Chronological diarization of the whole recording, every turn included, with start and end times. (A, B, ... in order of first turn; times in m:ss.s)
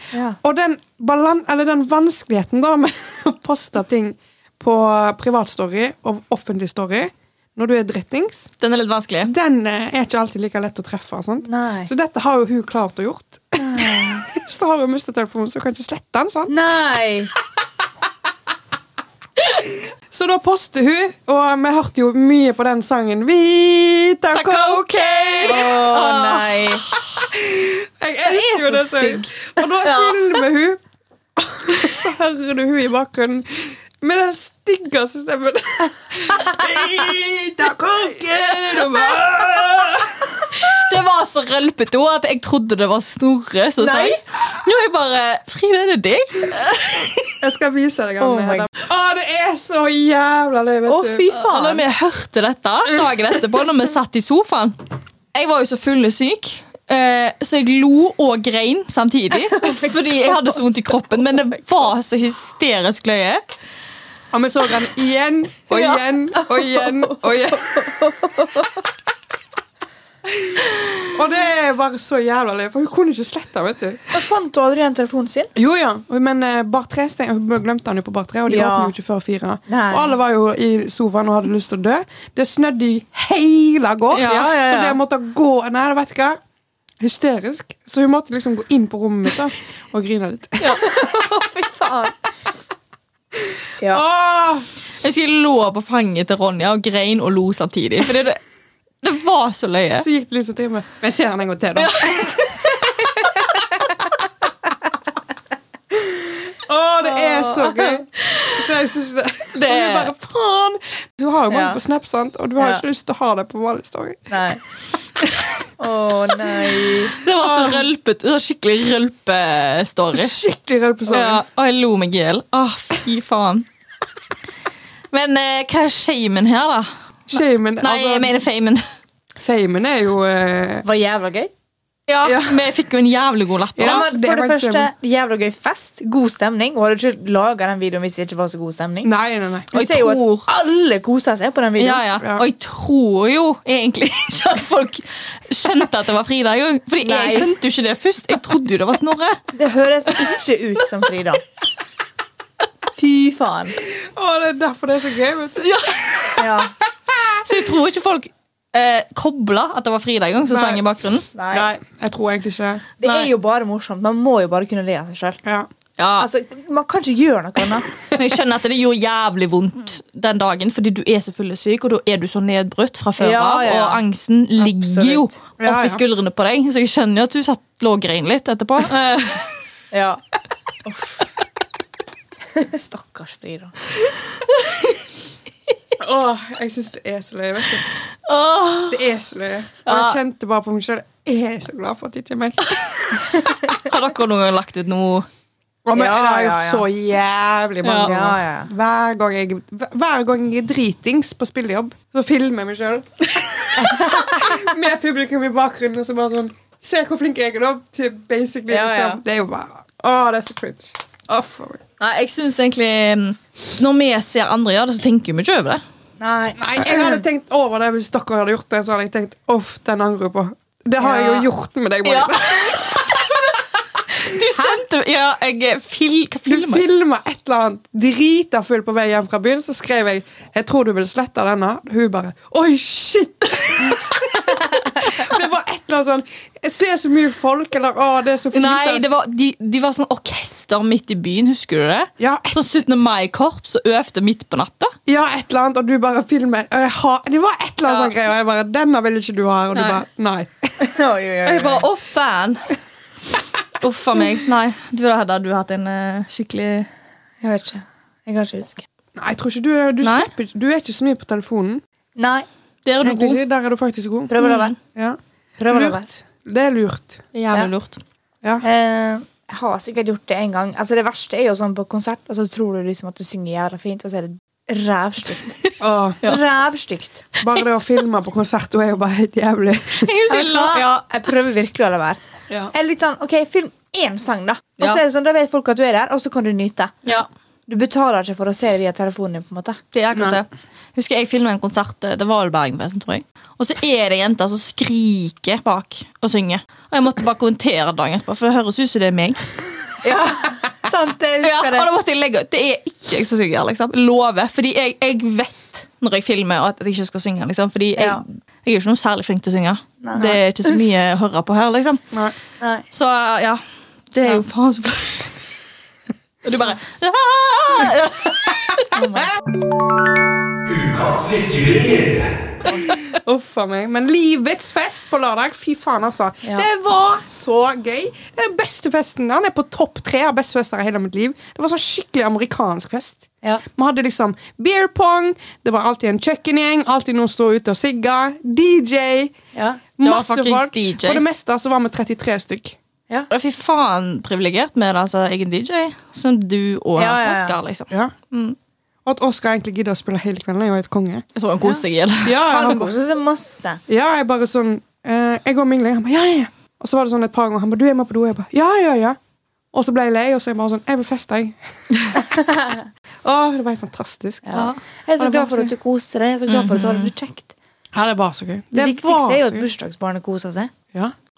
0:00.1-0:00.4 A
0:00.4-0:08.5 B
0:08.6-0:09.3 C
0:09.3-0:16.6 B
0:11.4-0:11.9 A
0:13.6-0:14.3 A
0:16.5-0:17.3 A
0:20.1-0:25.8 B
0:24.3-0:27.0 C
0:25.4-0:26.8 A
0:27.1-0:30.8 B
0:28.2-0:29.6 A
0:29.8-0:30.4 C
0:31.4-0:40.5 B
0:40.6-0:47.4 C
0:43.8-0:44.2 A
0:47.4-0:51.2 B
0:48.2-0:48.7 A
0:50.9-0:51.8 A
0:51.3-0:54.8 C
0:55.3-1:03.4 C
0:59.5-0:59.9 A
1:04.3-1:08.1 B
1:05.7-1:06.9 C
1:10.3-1:14.1 B
1:14.1-1:15.5 A
1:15.6-1:26.4 B
1:18.5-1:18.9 A
1:19.7-1:20.1 A
1:24.1-1:24.5 C
1:24.2-1:25.0 A
1:27.0-1:30.8 B
1:30.8-1:32.1 A
1:33.4-1:34.7 B
1:35.0-1:38.4 C
1:39.0-1:40.1 C
1:40.0-1:42.7 B
1:41.8-1:43.1 C
1:46.0-1:54.3 B
1:47.6-1:48.7 C
1:49.6-1:50.1 C
1:51.5-1:51.8 A
1:52.6-1:52.8 A
1:54.3-1:54.6 A
1:55.8-1:57.1 A
1:57.2-2:00.4 C
1:57.4-1:57.9 B
2:00.2-2:01.4 B
2:01.1-2:03.7 C
2:05.1-2:08.8 C
2:07.3-2:08.3 B
2:09.4-2:10.9 B
2:10.8-2:11.5 A
2:12.1-2:14.0 C
2:12.2-2:12.7 B
2:13.8-2:14.9 B
2:13.8-2:19.1 A
2:19.0-2:19.7 B
2:19.7-2:22.0 A
2:19.7-2:20.5 C
2:21.8-2:29.4 C
2:22.2-2:22.5 B
2:27.0-2:27.6 A
2:29.5-2:31.4 A
2:33.0-2:33.8 A
2:33.8-2:36.3 B
2:35.6-2:36.5 C
2:36.4-2:36.7 A
2:37.2-2:37.4 B
2:37.4-2:41.2 C
2:40.5-2:40.8 B
2:41.3-2:41.7 A
2:41.5-2:42.9 B
2:43.0-2:45.4 A
2:43.0-2:43.3 C
2:46.0-2:46.3 C
2:46.2-2:47.9 A
2:48.1-2:59.5 C
2:53.2-2:54.0 A
2:54.6-2:55.4 A
2:55.6-2:56.0 B
2:59.9-3:00.2 A
3:00.8-3:01.2 A
3:02.5-3:03.8 A
3:06.0-3:07.9 B
3:08.2-3:09.0 C
3:08.9-3:13.2 B
3:09.9-3:10.2 C
3:12.7-3:15.3 C
3:15.8-3:31.8 B
3:15.9-3:16.8 A
3:17.8-3:18.2 C
3:18.1-3:18.7 A
3:23.8-3:24.7 A
3:28.7-3:29.2 A
3:32.0-3:35.8 C
3:36.2-3:37.2 A
3:36.6-3:43.2 B
3:41.0-3:41.4 A
3:42.0-3:43.5 C
3:44.1-3:46.8 C
3:46.5-3:59.0 B
3:58.5-4:05.0 C
4:02.2-4:02.6 B
4:05.1-4:10.8 B
4:07.9-4:08.1 C
4:09.7-4:10.0 C
4:10.8-4:11.9 A
4:11.4-4:12.7 C
4:13.8-4:16.9 C
4:17.4-4:18.8 A
4:19.2-4:21.8 B
4:20.0-4:20.3 C
4:22.2-4:22.5 A
4:22.8-4:23.4 C
4:23.0-4:24.3 B
4:24.3-4:24.8 A
4:24.4-4:24.8 C
4:25.6-4:26.1 A
4:25.7-4:27.2 B
4:27.3-4:28.0 C
4:28.6-4:35.6 A
4:35.8-4:36.2 B
4:36.2-4:37.2 A
4:37.4-4:40.1 B
4:40.0-4:41.1 C
4:40.3-4:42.2 A
4:42.7-4:47.0 A
4:47.7-4:49.8 A
4:49.9-4:59.5 C
4:50.2-4:50.4 B
5:00.0-5:01.9 A
5:01.4-5:12.0 C
5:08.0-5:08.2 A
5:10.0-5:10.8 A
5:12.6-5:12.9 A
5:12.9-5:15.5 C
5:16.4-5:19.0 C
5:18.9-5:19.3 A
5:20.8-5:22.3 B
5:23.0-5:39.4 B
5:39.5-5:39.8 A
5:40.0-5:42.8 B
5:40.0-5:41.2 C
5:43.3-5:48.6 C
5:47.0-5:47.6 A
5:49.0-5:51.2 B
5:51.4-5:52.4 C
5:52.2-5:52.9 B
5:52.5-5:53.8 A
5:53.9-5:59.2 B
5:59.7-6:02.2 B
6:02.2-6:02.9 A
6:03.2-6:04.6 B
6:04.5-6:07.5 A
6:05.2-6:05.7 B
6:06.5-6:07.1 C
6:07.9-6:09.7 B
6:08.7-6:10.7 A